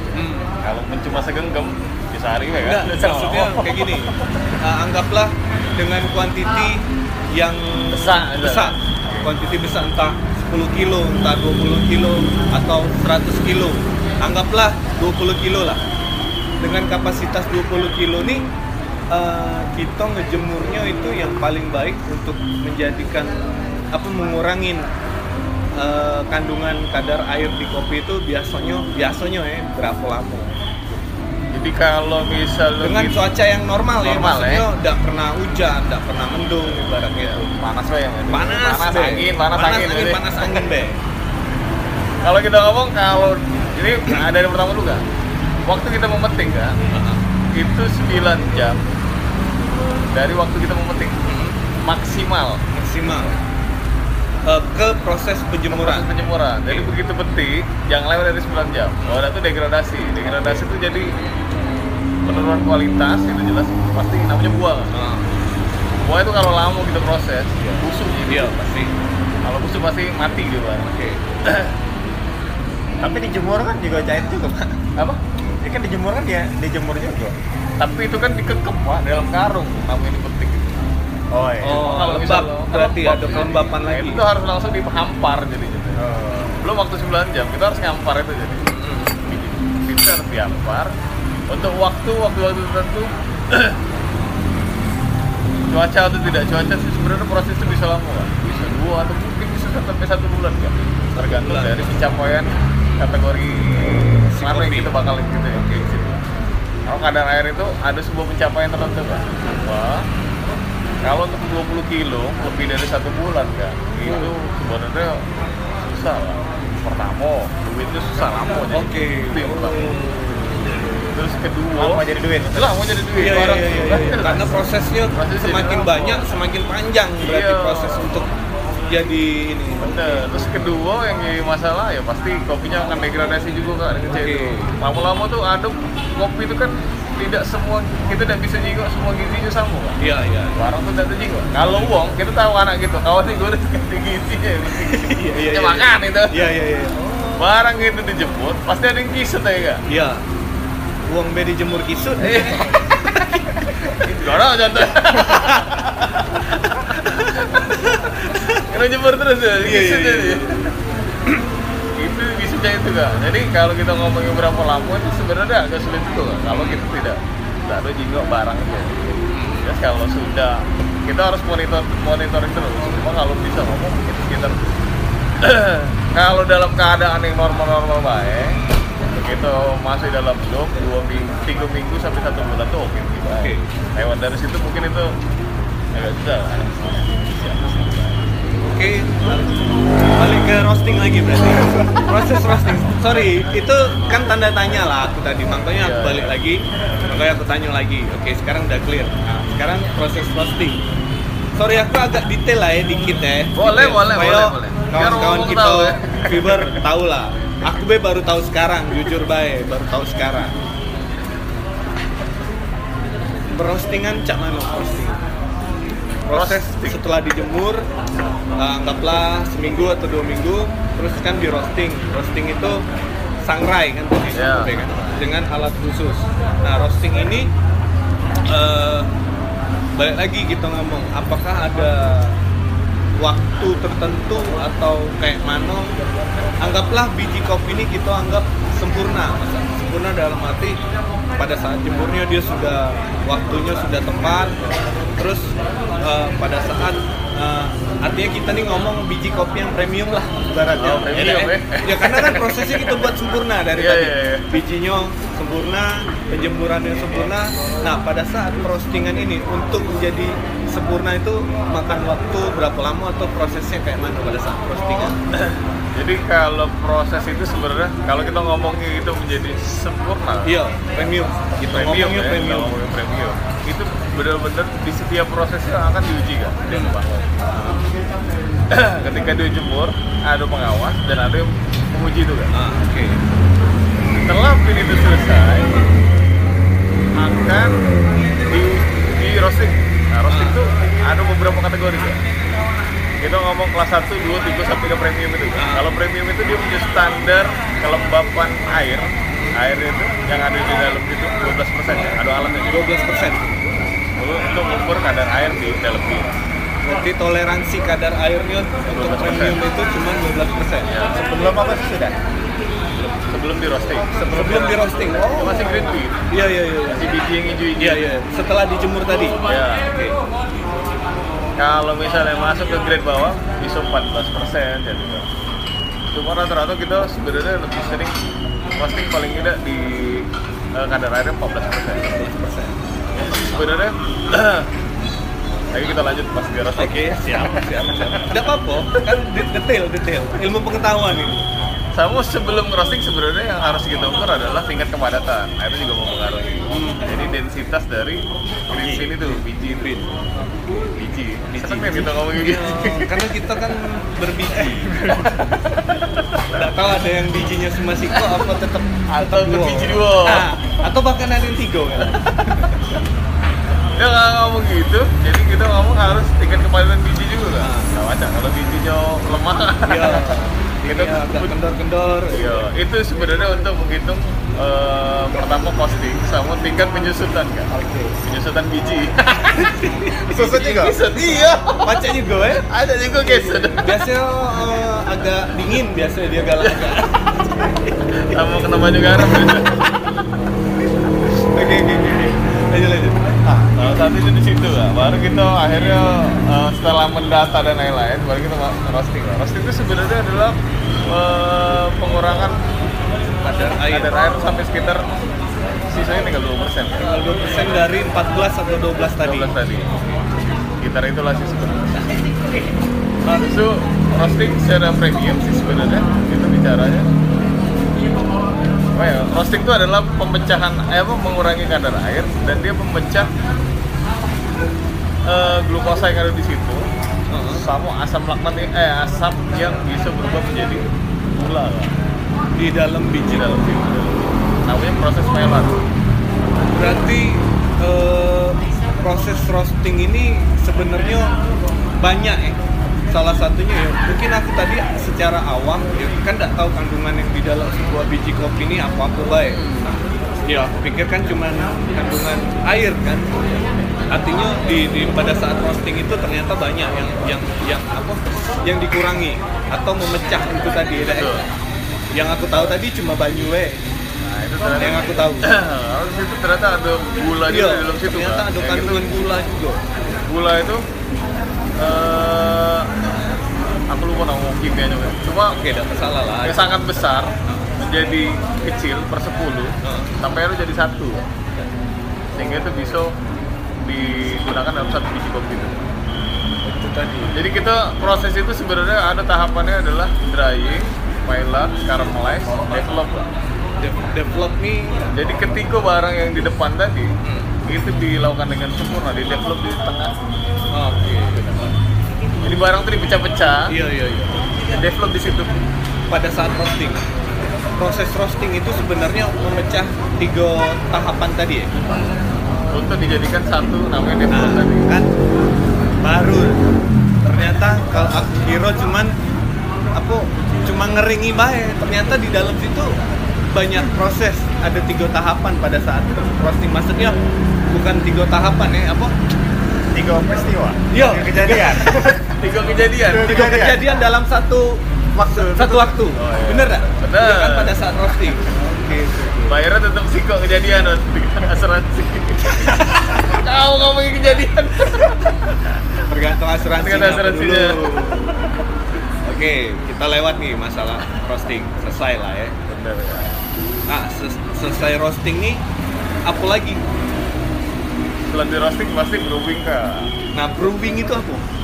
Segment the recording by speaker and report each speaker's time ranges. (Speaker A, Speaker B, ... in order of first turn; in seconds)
Speaker A: 0.1-0.5, 2.6-15.8, 16.6-18.5, 19.1-23.4, 23.9-24.9, 25.8-31.0, 32.8-37.5, 38.3-41.0, 46.9-47.2, 51.2-51.6, 52.7-53.4, 54.5-56.1, 60.2-60.7, 64.9-65.3, 67.6-69.0, 70.8-71.2, 81.6-84.2, 88.7-89.2, 101.2-102.0, 104.3-104.9, 105.5-106.1, 114.0-114.3, 118.7-121.2, 123.2-128.3, 128.9-130.2, 134.0-134.8, 140.0-140.6, 144.7-147.5, 149.9-150.2, 151.1-153.5, 155.1-155.9, 157.0-158.6, 159.6-160.6, 166.5-166.9, 169.3-169.7, 183.3-183.7, 188.7-189.5, 190.2-200.8, 201.6-210.6, 213.5-215.2, 216.3-217.9, 218.6-222.8, 223.4-227.5, 228.4-229.1, 229.9-232.4, 233.2-235.9, 236.6-240.8, 241.4-244.6, 245.2-265.2, 270.4-272.8, 276.7-277.0, 277.6-277.8, 282.5-283.3, 290.3-290.6, 295.6-295.9, 299.3-299.6, 301.9-303.8, 306.8-310.9, 314.2-317.1, 317.8-319.4, 332.0-333.6, 336.8-341.5, 346.7-347.2, 348.8-350.1, 351.5-355.5, 356.5-362.9, 367.6-367.9, 369.9-372.7, 377.7-378.2, 379.5-380.8, 381.8-382.7, 383.3-387.7, 391.3-393.6, 403.4-404.1, 407.0-409.5, 427.3-427.7, 432.6-433.6, 436.7-441.4, 442.0-442.6, 443.1-449.7, 450.5-453.4, 454.1-461.4, 462.1-463.8, 464.8-465.5, 467.5-469.8, 475.5-476.7, 479.8-480.1, 486.6-487.4, 493.8-495.1, 497.2-497.5, 500.7-501.5, 503.7-504.4, 506.1-507.0, 507.8-511.7, 514.3-515.1, 516.0-516.6, 517.2-519.2, 520.0-523.0, 523.5-527.2, 527.7-529.1, 530.9-532.0, 533.1-539.6, 542.6-543.2, 546.1-548.3, 549.2-552.6, 553.9-555.6, 556.3-556.9, 560.3-561.5
Speaker B: 0.6-3.8, 7.9-9.3, 31.5-33.3, 34.0-34.7, 37.1-40.4, 42.2-45.0, 45.7-46.8, 47.5-48.8, 50.1-51.2, 51.8-52.6, 55.7-61.2, 62.2-64.9, 66.0-68.5, 69.4-70.9, 71.5-71.7, 77.8-80.8, 81.7-88.7, 89.2-90.9, 91.5-93.8, 95.7-106.2, 106.9-110.1, 111.0-115.3, 115.8-120.0, 121.1-126.3, 127.2-128.1, 129.8-140.0, 140.6-146.4, 147.4-149.8, 152.2-152.8, 153.8-156.1, 156.8-157.8, 158.5-160.7, 162.0-174.6, 175.4-178.6, 179.2-185.2, 185.9-188.2, 195.8-196.3, 203.6-206.8, 216.3-217.0, 224.3-225.2, 250.8-253.1, 253.8-254.5, 265.3-270.6, 271.7-277.3, 278.7-282.5, 284.2-285.7, 287.1-287.8, 288.5-292.2, 293.2-302.8, 304.2-306.3, 308.9-309.6, 310.9-311.2, 313.3-316.3, 316.9-318.1, 319.5-319.9, 321.6-325.3, 326.1-328.1, 328.8-332.2, 333.1-334.7, 335.7-338.5, 341.9-350.0, 350.9-353.2, 359.1-360.5, 364.0-371.5, 372.3-377.7, 378.2-381.9, 382.6-384.0, 386.6-387.0, 388.1-389.9, 393.6-400.6, 401.1-402.6, 403.9-405.1, 405.9-407.1, 409.2-409.9, 410.8-412.2, 413.3-417.1, 418.9-423.3, 425.3-426.9, 427.5-431.9, 433.2-435.8, 449.5-450.0, 461.0-461.4, 464.2-469.1, 470.2-470.8, 471.8-472.9, 473.9-475.6, 476.4-481.2, 482.4-483.2, 483.8-485.8, 487.3-493.3, 495.1-497.1, 497.6-500.1, 501.3-501.7, 502.4-503.7, 504.7-505.5, 512.7-514.9, 532.2-533.5, 535.2-537.8, 539.5-545.6, 546.8-548.2, 552.7-553.4, 558.3-560.1
Speaker C: 73.0-74.8, 75.6-77.3, 81.3-81.9, 86.0-86.5, 121.8-122.8, 311.1-312.2, 380.3-381.0, 529.9-532.3, 533.0-534.0